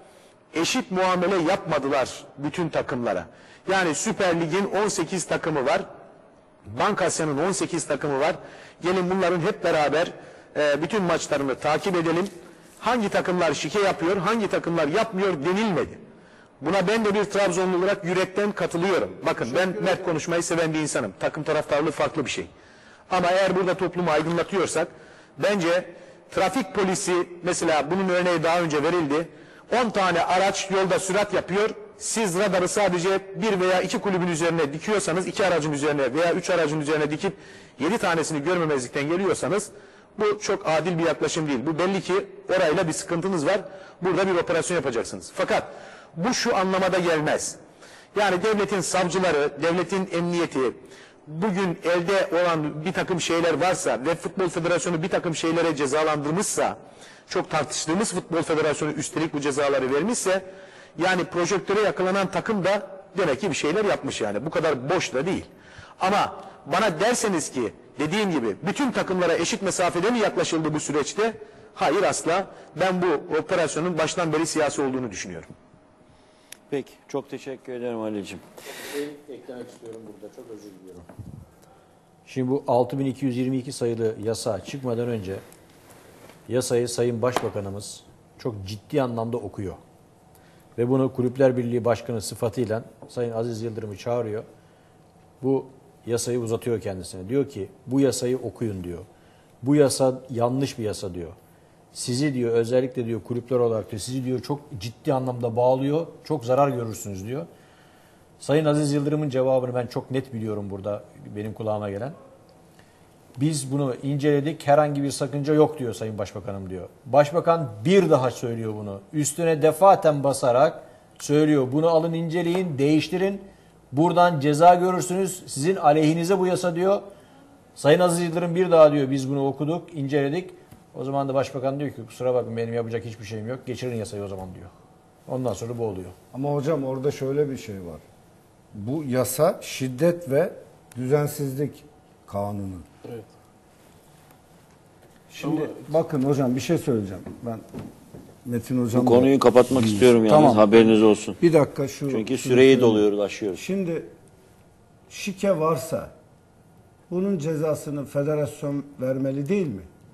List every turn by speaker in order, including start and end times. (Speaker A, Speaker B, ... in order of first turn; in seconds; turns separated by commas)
Speaker A: 0.5-5.8, Speaker A: 6.7-16.0, Speaker A: 16.6-22.5, Speaker B: 19.4-20.1, Speaker A: 23.1-47.6, Speaker A: 48.1-56.8, Speaker A: 57.3-60.4, Speaker A: 61.0-65.5, Speaker A: 66.0-75.5, Speaker C: 76.7-78.5, Speaker D: 78.9-81.1, Speaker D: 82.3-85.4, Speaker D: 86.5-89.8, Speaker D: 90.8-94.5, Speaker D: 95.4-99.1, Speaker D: 99.6-101.4, Speaker D: 101.9-107.5, Speaker D: 108.4-112.2, Speaker D: 113.4-127.1, Speaker D: 127.8-134.7, Speaker D: 135.3-136.2, Speaker B: 136.3-138.0, Speaker B: 138.7-142.9, Speaker B: 145.3-147.6, Speaker B: 148.4-154.1, Speaker C: 148.9-151.4, Speaker C: 152.1-153.6, Speaker B: 155.1-156.1, Speaker B: 157.1-159.9